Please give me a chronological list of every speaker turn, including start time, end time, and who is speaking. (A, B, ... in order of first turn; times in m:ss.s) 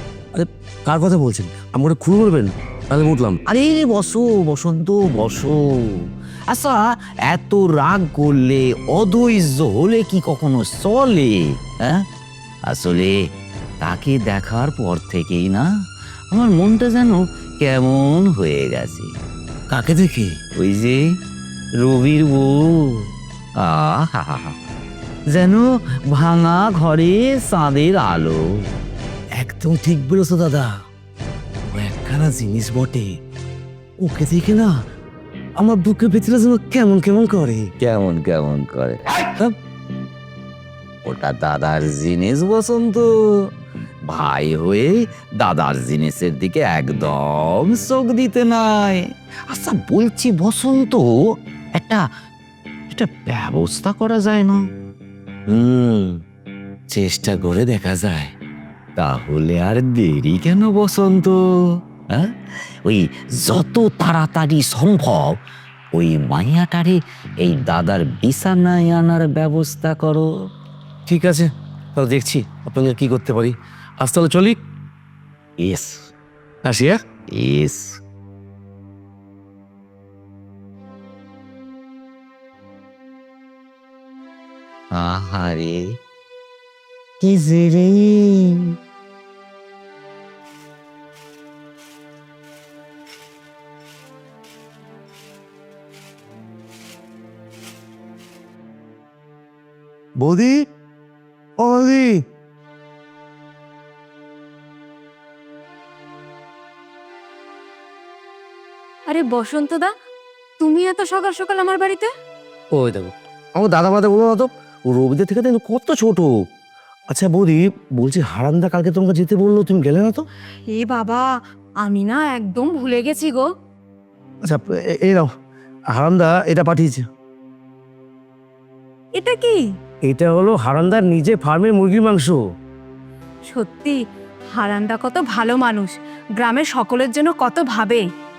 0:00.3-0:03.4 A
0:03.5-0:12.0 B
0:12.7-0:13.2 B
0:13.8-0:15.7 B
0:16.3-0:19.1 B
0:19.7-0:20.4 A
0:20.6-0:21.0 B
0:21.8-0:23.0 B
0:23.6-0:24.5 B
0:25.3-0:28.4 B
0:29.4-0:30.7 A
0:31.7-0:33.2 A
0:34.0-0:34.8 A
0:35.6-0:37.7 A
0:37.8-0:39.5 B
0:41.0-0:43.1 B
0:44.0-0:52.1 B
0:52.9-0:54.6 B
0:55.5-0:56.2 B
0:56.9-0:58.3 B
0:59.0-1:01.5 B
1:02.8-1:05.4 B
1:05.9-1:10.3 B
1:11.1-1:14.6 A
1:15.6-1:16.1 B
1:16.6-1:17.0 A
1:17.3-1:18.0 B
1:24.9-1:26.0 B
1:27.2-1:28.7 B
1:40.2-1:40.6 A
1:41.6-1:42.2 A
1:49.1-1:49.9 C
1:50.6-1:52.1 C
1:52.7-1:56.3 A
1:57.1-2:00.2 A
2:00.7-2:01.3 C
2:01.8-2:03.5 C
2:04.4-2:05.3 A
2:05.9-2:07.0 A
2:09.2-2:09.6 C
2:10.0-2:12.4 A
2:13.5-2:14.0 C
2:14.5-2:18.0 C